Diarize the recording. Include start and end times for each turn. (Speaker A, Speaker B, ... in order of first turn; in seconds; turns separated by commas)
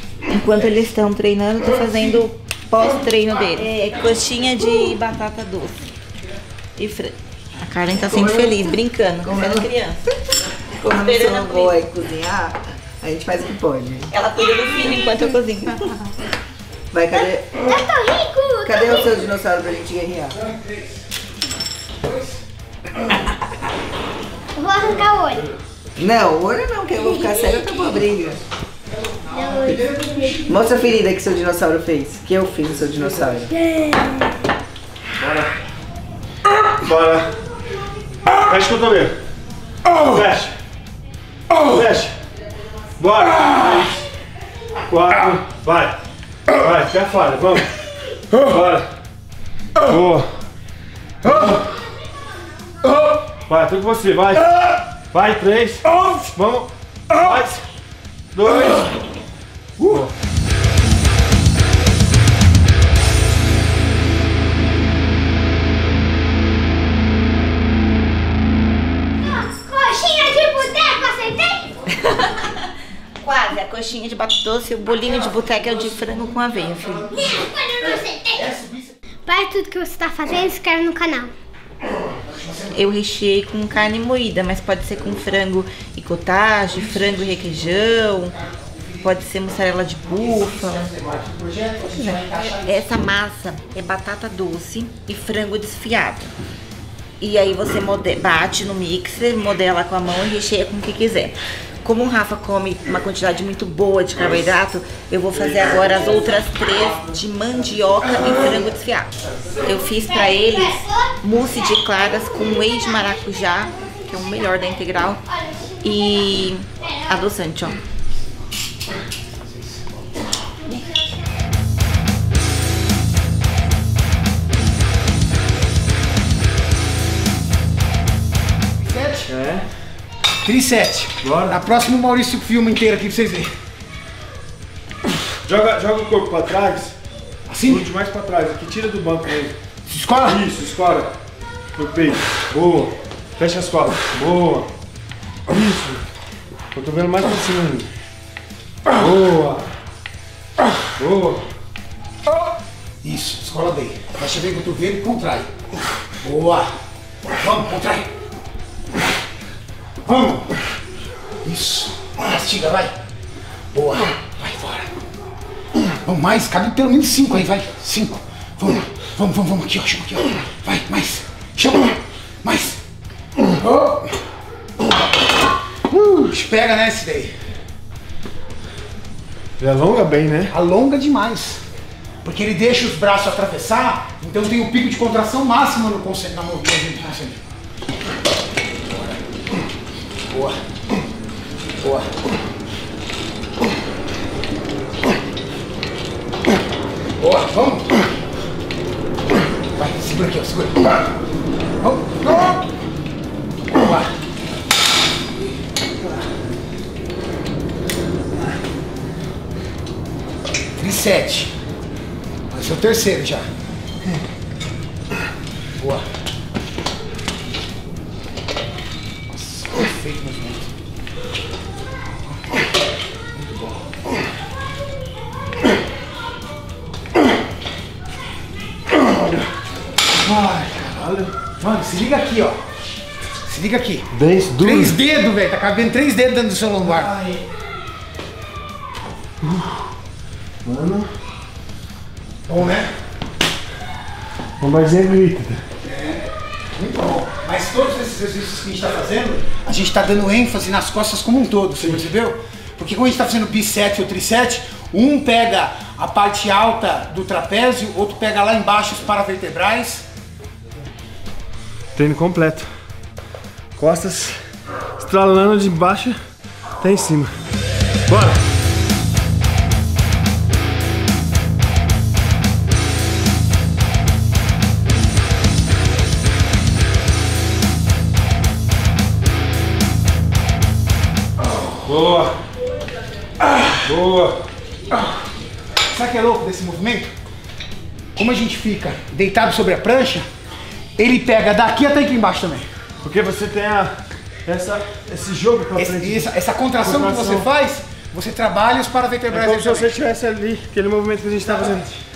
Speaker A: 0.3-5.8, Speaker A: 6.8-10.1, Speaker B: 8.0-9.7, Speaker B: 10.8-14.1, Speaker A: 10.8-11.8, Speaker A: 14.1-15.8, Speaker B: 16.9-17.6, Speaker C: 17.6-19.2, Speaker B: 18.7-20.4, Speaker D: 20.3-21.1, Speaker D: 22.0-22.5, Speaker C: 24.6-25.4, Speaker B: 26.0-28.4, Speaker C: 27.0-27.7, Speaker D: 28.9-30.5, Speaker C: 29.3-30.4, Speaker B: 30.5-33.5, Speaker C: 33.5-34.3, Speaker E: 35.2-35.6, Speaker E: 36.8-37.4, Speaker E: 38.3-39.2, Speaker E: 39.9-40.6, Speaker E: 41.5-42.2, Speaker E: 43.0-44.1, Speaker E: 44.9-46.0, Speaker E: 46.5-48.9, Speaker E: 49.8-50.3, Speaker E: 51.2-51.7, Speaker E: 53.3-57.6, Speaker E: 58.3-59.0, Speaker E: 59.8-60.1, Speaker C: 69.2-71.8, Speaker A: 72.0-72.7, Speaker A: 73.2-77.1, Speaker D: 75.0-79.0, Speaker C: 77.2-78.5, Speaker C: 79.3-81.3, Speaker D: 82.2-82.9, Speaker A: 82.7-88.4, Speaker D: 86.9-89.2, Speaker A: 89.0-90.9, Speaker D: 90.0-93.0, Speaker A: 92.0-96.3, Speaker A: 97.2-115.2, Speaker E: 105.5-106.7, Speaker C: 110.0-111.2, Speaker C: 115.3-116.1, Speaker A: 115.8-117.8, Speaker D: 119.4-120.2, Speaker D: 128.8-129.3, Speaker E: 129.3-129.7, Speaker D: 130.4-133.5, Speaker E: 131.2-131.6, Speaker E: 135.4-137.0, Speaker D: 137.5-137.9, Speaker E: 137.6-139.6, Speaker D: 139.9-140.4, Speaker E: 140.2-141.1, Speaker E: 141.8-144.7, Speaker E: 145.5-146.0, Speaker E: 146.7-147.9, Speaker E: 148.9-149.7, Speaker E: 151.0-151.4, Speaker D: 153.0-155.5, Speaker D: 156.2-156.7, Speaker D: 157.4-158.1, Speaker D: 160.1-160.6, Speaker D: 161.4-162.9, Speaker D: 163.7-165.0, Speaker D: 165.9-172.8, Speaker D: 173.4-174.2, Speaker D: 176.0-177.4, Speaker E: 179.6-180.5, Speaker D: 180.5-181.6, Speaker D: 182.2-187.5, Speaker D: 188.8-189.2, Speaker D: 190.3-190.6, Speaker D: 191.8-192.2, Speaker D: 197.2-198.0, Speaker D: 199.8-201.1, Speaker D: 201.8-202.7, Speaker D: 203.6-204.2, Speaker D: 210.8-211.5, Speaker D: 212.5-213.5, Speaker D: 215.8-216.1, Speaker D: 219.3-220.7, Speaker E: 230.1-231.3, Speaker D: 231.6-232.6, Speaker D: 233.4-237.1, Speaker E: 234.1-235.0, Speaker E: 236.8-237.4, Speaker E: 239.4-239.9, Speaker E: 240.6-241.1, Speaker D: 242.5-242.9, Speaker E: 244.6-245.6, Speaker D: 245.8-260.1, Speaker E: 262.0-262.7, Speaker E: 263.8-264.4, Speaker E: 265.0-266.2, Speaker E: 266.8-267.4, Speaker E: 268.1-268.4, Speaker E: 281.8-282.4, Speaker D: 283.5-283.7, Speaker E: 283.8-284.4, Speaker D: 285.9-287.1, Speaker D: 288.2-290.3, Speaker D: 291.0-292.7, Speaker E: 293.0-296.3, Speaker D: 295.8-299.9, Speaker E: 296.8-297.5, Speaker E: 299.3-301.9, Speaker D: 301.4-302.0